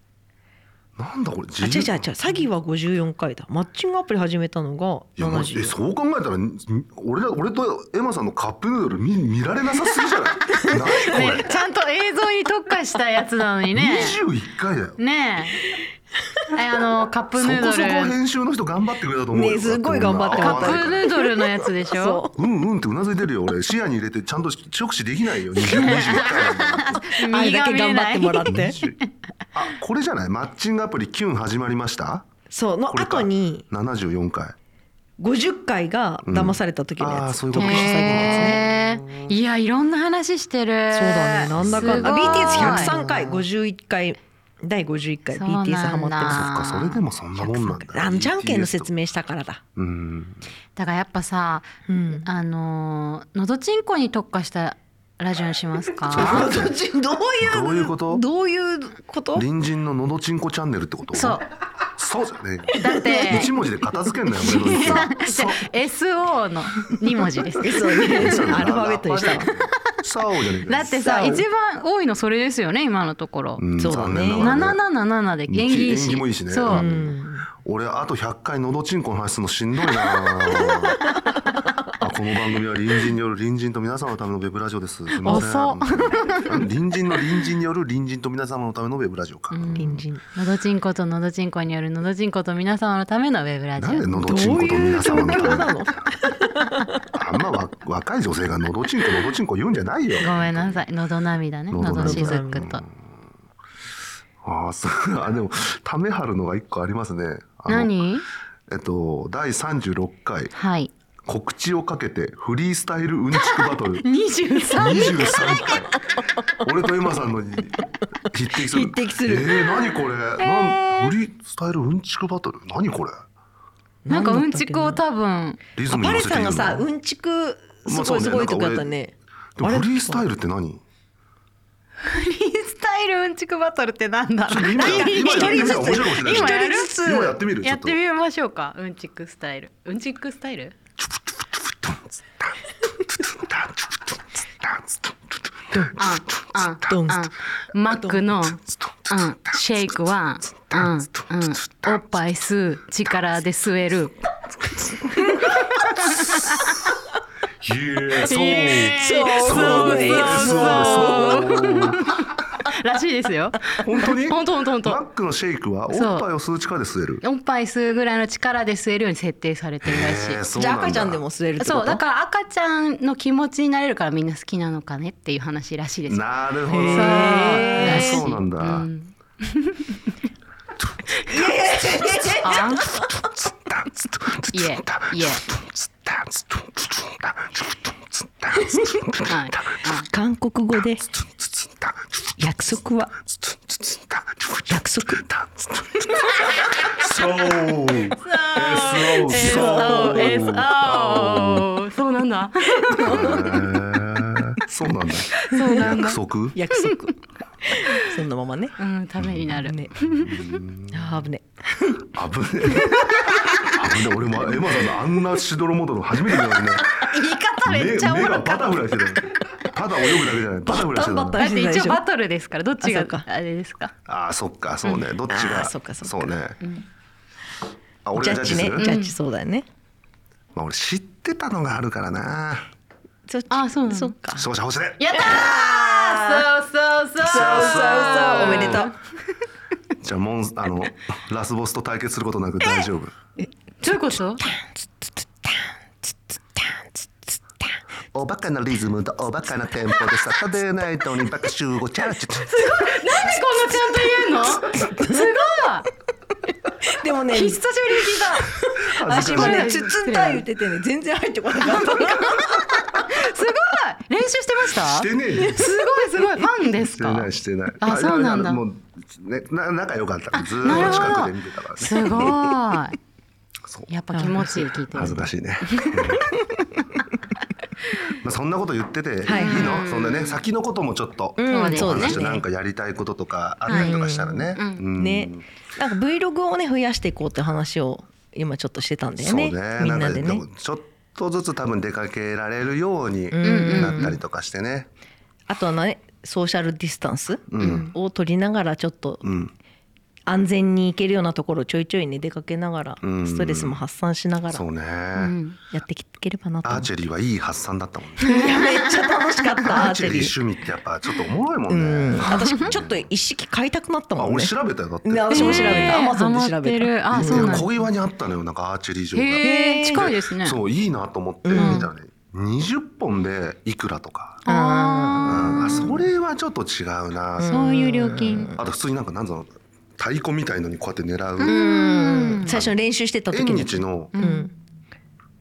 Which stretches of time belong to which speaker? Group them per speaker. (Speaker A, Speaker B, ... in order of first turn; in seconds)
Speaker A: 1.0-2.1, 5.2-11.6, 13.7-15.0, 17.4-21.1, 22.3-27.1, 28.5-29.0, 29.5-32.3, 32.9-34.6, 36.2-39.4, 41.5-43.3, 46.3-48.9, 49.8-50.5, 56.1-56.7, 57.4-58.2, 59.4-61.4, 62.0-65.7, 68.1-71.0, 73.6-74.8, 75.5-81.0, 81.9-90.1, 93.8-95.8, 97.1-100.8, 101.7-102.9, 104.4-108.0, 108.7-110.5, 111.3-114.0, 114.8-123.2, 125.8-126.9, 127.9-128.9, 129.6-130.8, 134.5-138.0, 141.0-147.0, 148.7-149.6, 150.6-152.0, 154.9-155.3, 156.0-156.4, 157.6-162.1, 163.8-167.2, 169.8-171.2, 176.1-178.9, 182.8-189.9, 191.0-192.5, 193.3-201.7, 203.0-206.6, 209.2-211.3, 212.1-217.0, 217.6-221.5, 224.1-226.6, 228.1-228.9, 230.5-232.7, 234.3-235.1, 237.2-238.9, 240.0-243.2, 248.1-252.7, 258.8-259.8, 264.8-265.7, 266.8-272.5, 274.9-276.4, 278.1-285.5, 289.2-294.9, 297.5-297.9, 299.2-299.5, 303.0-303.8, 304.5-305.4, 306.6-308.6, 309.6-313.0, 314.2-316.0, 317.1-324.4, 325.2-331.6, 332.4-332.7, 333.3-334.1
Speaker B: 1.6-5.8, 19.3-22.4, 27.2-28.8, 32.5-33.7, 35.2-38.6, 40.9-46.5, 47.4-49.6, 51.9-52.3, 56.1-59.5, 62.9-63.5, 64.4-65.1, 67.6-69.5, 71.0-71.5, 73.8-74.6, 76.7-77.5, 80.0-81.2, 85.2-86.6, 89.8-90.2, 94.3-97.1, 101.8-102.8, 118.5-119.9, 124.0-125.0, 125.9-130.3, 134.6-137.4, 146.9-147.3, 158.8-161.8, 170.6-172.0, 176.7-178.3, 181.2-182.8, 190.1-191.0, 192.4-193.1, 194.7-195.2, 199.3-200.4, 202.8-203.7, 205.6-206.0, 206.5-208.8, 209.5-210.2, 210.9-212.1, 220.3-222.0, 222.8-223.2, 225.3-226.3, 228.2-229.7, 233.3-234.5, 235.1-236.5, 237.2-238.9, 244.4-244.7, 246.6-246.8, 254.3-255.3, 256.5-263.0, 270.6-271.2, 274.1-275.2, 279.2-279.8, 281.4-282.4, 283.7-290.4, 293.3-294.2, 295.5-299.3, 300.3-304.6, 305.7-306.9, 308.3-310.4, 311.7-317.7, 319.4-320.1, 321.4-321.9, 324.5-326.0, 327.4-328.6, 331.5-334.5
Speaker C: 11.1-14.2, 15.0-15.6, 16.5-18.2, 20.3-22.2, 25.6-29.1, 37.5-43.0, 45.3-47.0, 50.8-56.5, 61.1-61.5, 62.8-63.5, 64.4-68.3, 70.6-73.6, 74.3-76.8, 89.5-94.6, 100.2-102.8, 107.7-108.2, 110.5-110.9, 113.3-115.8, 120.4-121.2, 124.1-125.6, 132.0-137.0, 137.6-140.7, 145.9-154.2, 154.9-156.8, 158.2-165.0, 165.9-166.3, 167.2-170.4, 171.6-176.3, 176.8-180.0, 182.4-183.0, 184.5-185.4, 189.3-190.1, 198.2-203.4, 205.3-206.2, 208.8-210.6, 212.8-213.7, 216.8-218.9, 221.4-223.9, 224.8-225.1, 228.8-229.2, 233.5-234.2, 235.0-239.0, 243.8-244.5, 252.5-255.9, 257.3-258.5, 259.1-260.5, 261.8-268.6, 270.5-273.0, 273.9-276.6, 279.3-280.4, 281.5-282.2, 283.7-284.0, 284.6-284.9, 293.4-294.2, 297.6-297.9, 305.1-305.6, 308.2-308.5, 312.3-312.7, 315.3-317.8, 319.1-320.6, 321.6-321.9, 324.4-326.0, 327.4-328.5, 331.4-332.6, 334.2-334.5